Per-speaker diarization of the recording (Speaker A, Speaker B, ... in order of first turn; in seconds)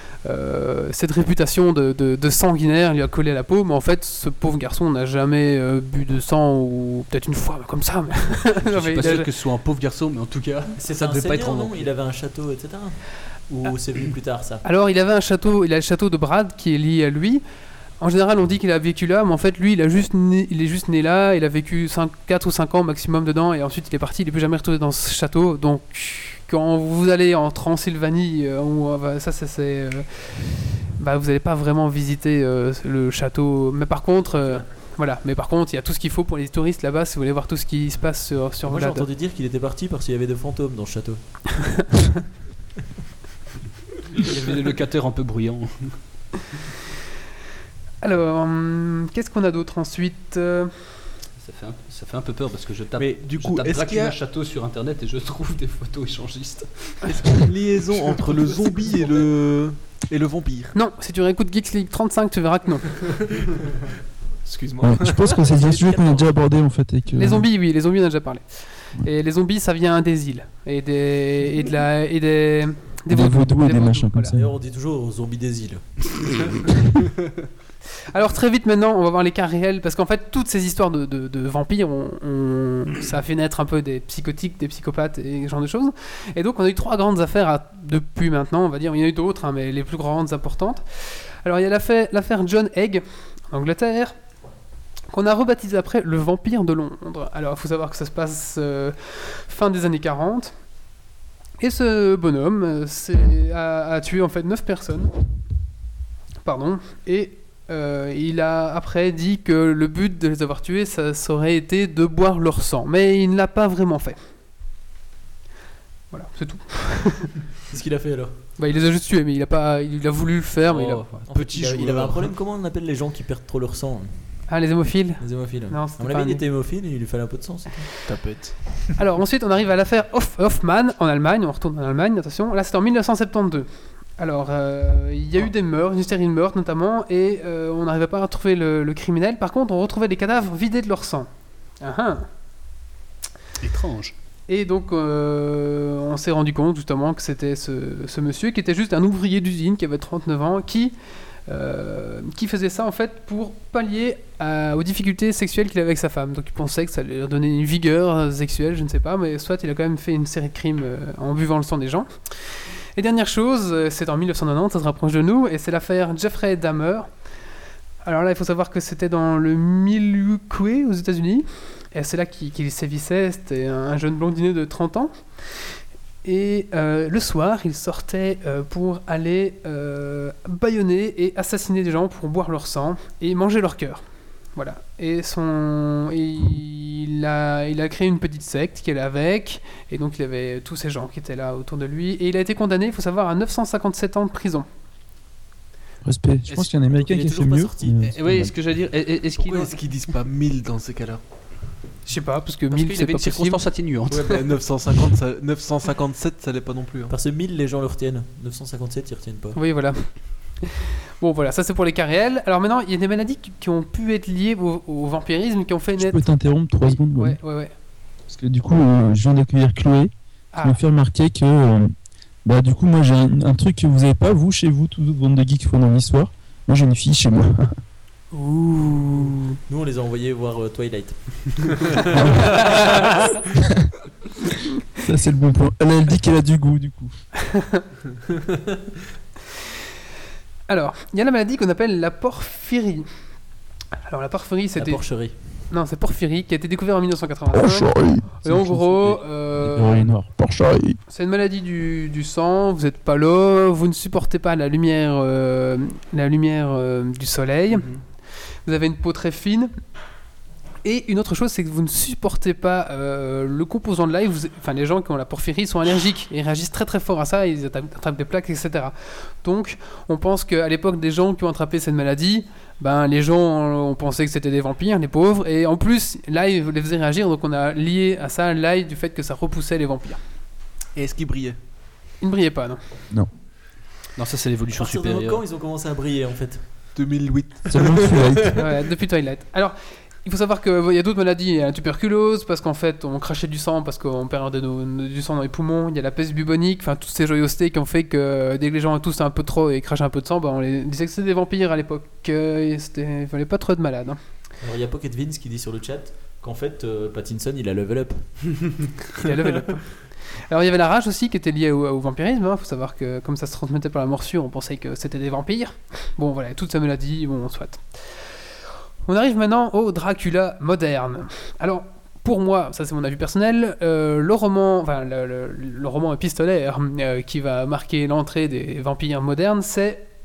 Speaker A: 0.2-9.3, 14.6-17.4, 18.0-39.1, 48.0-50.9, 60.7-63.0, 67.1-74.3, 78.1-94.2, 95.1-100.5, 101.6-105.1, 106.4-114.2, 116.1-117.3, 118.5-121.2, 124.5-126.4, 129.0-142.3, 144.5-150.9, 151.5-167.1, 168.0-175.1, 176.2-194.7, 202.0-204.2, 209.5-217.7, 220.5-220.8, 228.3-229.6, 240.7-243.1, 244.1-250.1, 251.1-258.0, 258.6-259.7, 260.8-280.2, 282.2-282.8, 288.6-304.2, 309.2-318.4, 319.1-330.1
Speaker B: 8.7-11.9, 44.1-46.0, 51.4-57.0, 58.0-59.2, 120.7-121.2, 143.6-144.1, 198.0-199.8, 202.7-204.4, 284.1-285.4
Speaker C: 10.8-14.6, 38.6-42.0, 65.4-66.4, 74.3-76.6, 117.7-118.5, 121.3-124.5, 125.2-127.9, 196.5-198.1, 207.1-209.6, 229.7-232.9, 244.8-245.5, 284.7-286.9, 304.6-308.8
Speaker D: 53.0-54.2, 57.1-60.7, 64.4-65.4, 121.3-122.4, 128.0-128.9, 199.3-201.2, 204.2-207.1, 280.9-281.6, 286.9-288.5
Speaker E: 64.8-67.5, 73.1-74.5, 196.0-198.6, 215.9-217.4, 218.3-221.9, 222.4-227.8, 232.1-232.6, 235.0-237.2, 247.5-251.0, 287.7-288.6